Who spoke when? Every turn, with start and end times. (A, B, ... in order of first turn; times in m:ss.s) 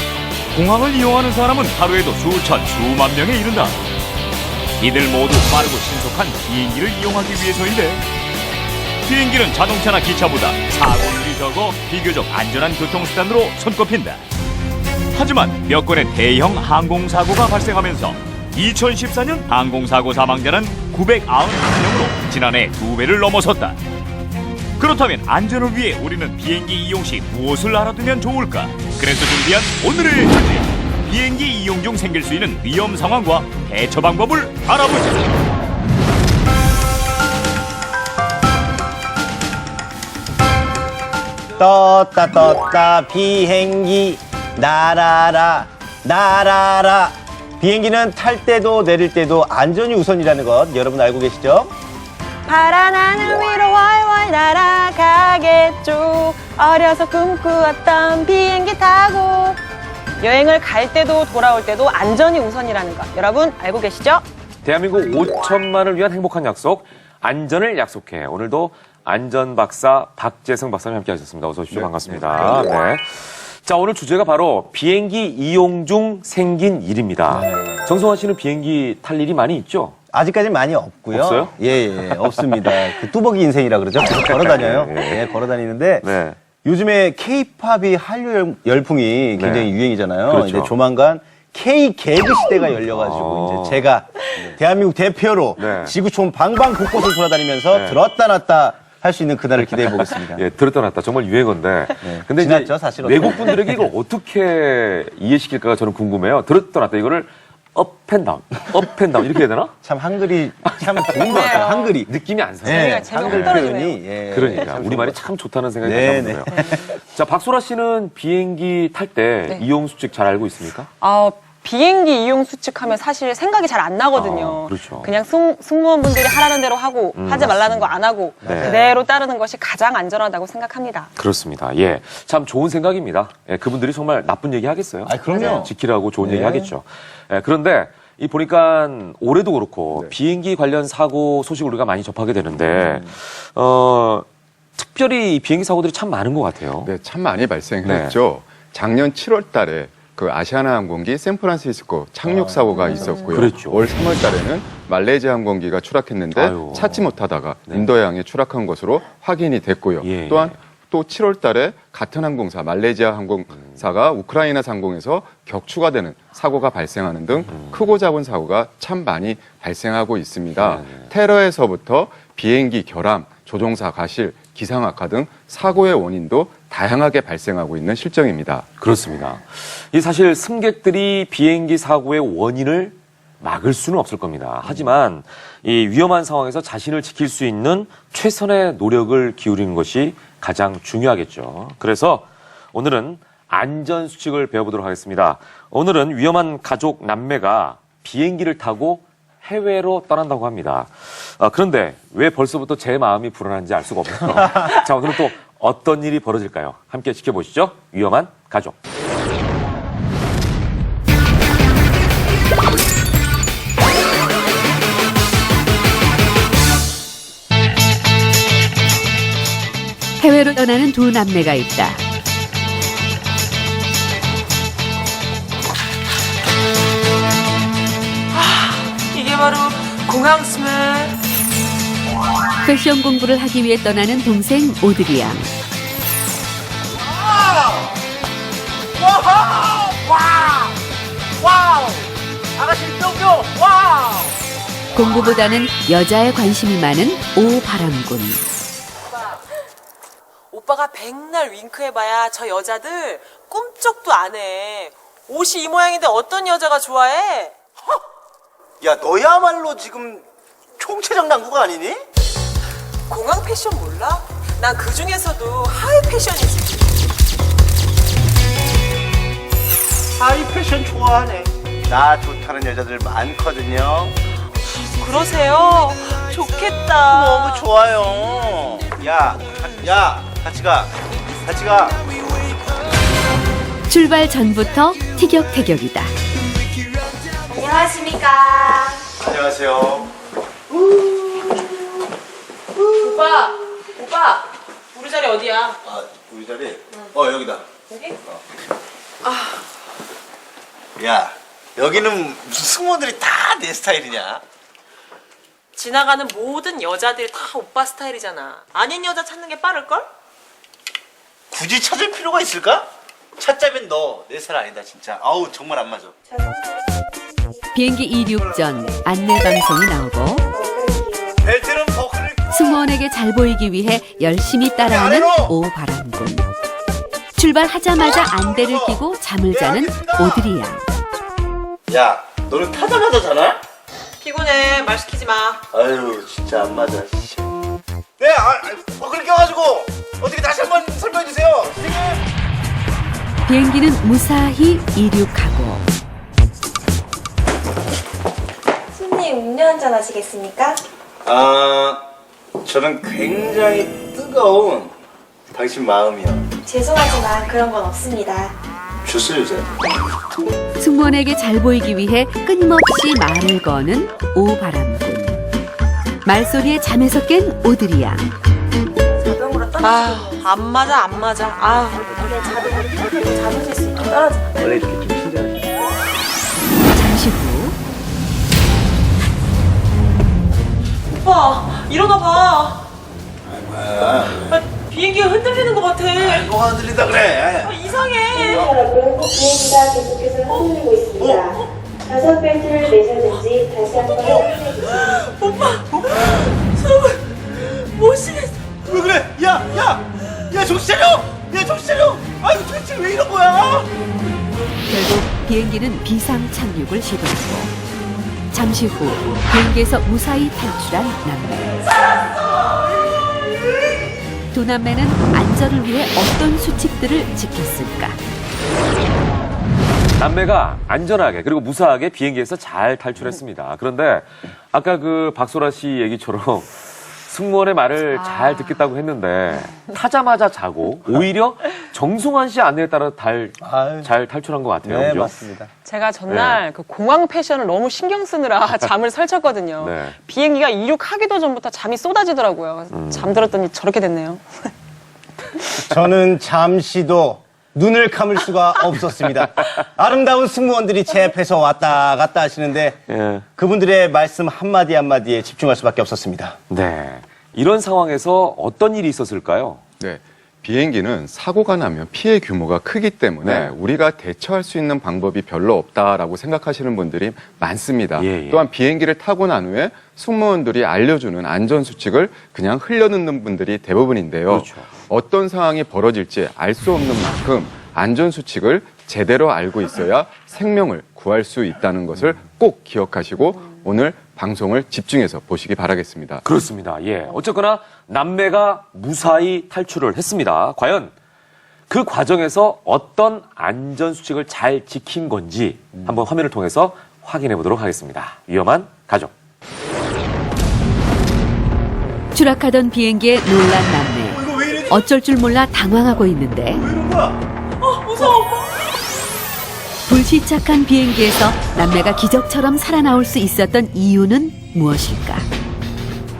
0:00.5-0:03.8 A
0:04.8-0:08.0 A
0:09.0-0:14.2 A
0:15.1-0:23.8 A
0:24.8-0:35.3 A
0:41.6-0:51.7 B
0:52.5-0:59.6 C
1:00.2-1:04.2 C
1:04.6-1:20.0 D
1:17.3-1:17.9 B
1:20.1-1:26.1 B
1:21.1-1:23.1 D
1:24.0-1:25.4 D
1:26.0-1:26.4 D
1:26.6-1:40.4 B
1:29.4-1:29.7 D
1:30.3-1:30.7 D
1:32.8-1:33.9 D
1:35.6-1:36.0 D
1:37.7-1:38.0 D
1:39.7-1:49.8 D
1:42.0-1:43.9 B
1:49.8-1:52.1 B
1:50.7-2:00.9 D
1:51.2-1:52.0 C
1:52.6-1:54.0 C
1:52.6-1:55.2 B
1:55.8-1:56.9 B
2:01.0-2:11.1 C
2:04.1-2:05.1 D
2:07.2-2:08.7 D
2:08.4-2:09.0 B
2:11.2-2:24.2 D
2:15.1-2:16.7 B
2:22.6-2:23.1 B
2:24.8-2:26.9 D
2:26.8-2:58.7 E
2:27.8-2:28.2 D
2:32.2-2:33.4 B
2:33.3-2:33.9 D
2:36.3-2:37.1 D
2:40.0-2:40.6 D
2:47.5-2:47.8 D
2:50.6-2:51.1 D
2:58.8-3:28.8 D
3:40.2-3:42.0 F
3:48.3-3:51.2 G
3:52.6-3:55.5 F
3:57.0-3:57.9 B
3:59.0-4:00.8 B
4:01.4-4:04.3 B
4:04.9-4:08.4 F
4:10.5-4:17.6 G
4:18.8-4:20.2 B
4:20.8-4:22.0 B
4:23.1-4:26.9 G
4:30.2-4:34.1 B
4:34.9-4:37.7 G
4:37.0-4:40.9 B
4:41.4-4:42.0 B
4:43.9-4:46.1 F
4:47.5-4:49.0 H
4:49.2-4:50.1 B
4:50.7-4:51.4 B
4:52.8-4:53.2 B
4:53.0-4:55.8 G
4:55.8-4:57.6 B
4:57.9-4:58.2 G
4:59.2-4:59.6 G
5:01.0-5:04.4 B
5:05.8-5:10.1 G
5:11.5-5:16.1 B
5:16.2-5:17.2 H
5:17.7-5:20.4 F
5:18.4-5:18.8 B
5:18.8-5:19.6 H
5:20.4-5:21.5 H
5:21.4-5:22.8 B
5:22.5-5:26.5 F
5:24.9-5:25.5 B
5:27.4-5:30.8 F
5:28.3-5:29.0 B
5:29.5-5:30.5 B
5:31.9-5:33.6 B
5:34.2-5:35.6 G
5:35.7-5:37.4 B
5:38.2-5:42.2 B
5:43.4-5:45.8 F
5:48.9-5:50.8 H
5:51.2-5:52.0 B
5:52.6-5:54.9 B
5:55.5-5:56.4 B
5:56.6-5:58.6 H
5:59.0-5:59.7 B
6:00.8-6:05.4 F
6:06.2-6:08.3 F
6:09.2-6:10.4 H
6:09.8-6:12.2 G
6:12.1-6:14.4 H
6:16.9-6:17.8 F
6:21.2-6:22.8 G
6:23.7-6:24.1 B
6:24.2-6:26.6 G
6:26.2-6:27.7 B
6:27.6-6:28.6 G
6:28.3-6:35.2 H
6:34.0-6:34.2 G
6:35.2-6:37.2 G
6:37.7-6:38.6 G
6:38.8-6:43.9 B
6:44.9-6:47.7 F
6:48.5-6:51.8 F
6:54.5-6:58.2 F
7:00.2-7:15.3 D
7:13.6-7:14.1 B
7:14.8-7:15.7 B
7:15.8-7:24.7 C
7:16.3-7:16.6 D
7:19.8-7:20.2 D
7:22.9-7:23.5 D
7:25.9-7:33.0 B
7:33.1-7:33.4 D
7:33.6-7:36.6 B
7:36.7-7:39.8 D
7:40.0-8:06.4 E
7:43.4-7:43.7 D
7:48.2-7:48.6 D
7:54.5-7:54.9 D
8:06.4-8:11.1 D
8:11.9-8:19.3 D
8:16.0-8:16.2 B
8:22.3-8:26.9 F
8:24.3-8:25.0 B
8:26.7-8:27.4 B
8:27.8-8:29.0 G
8:30.1-8:35.5 F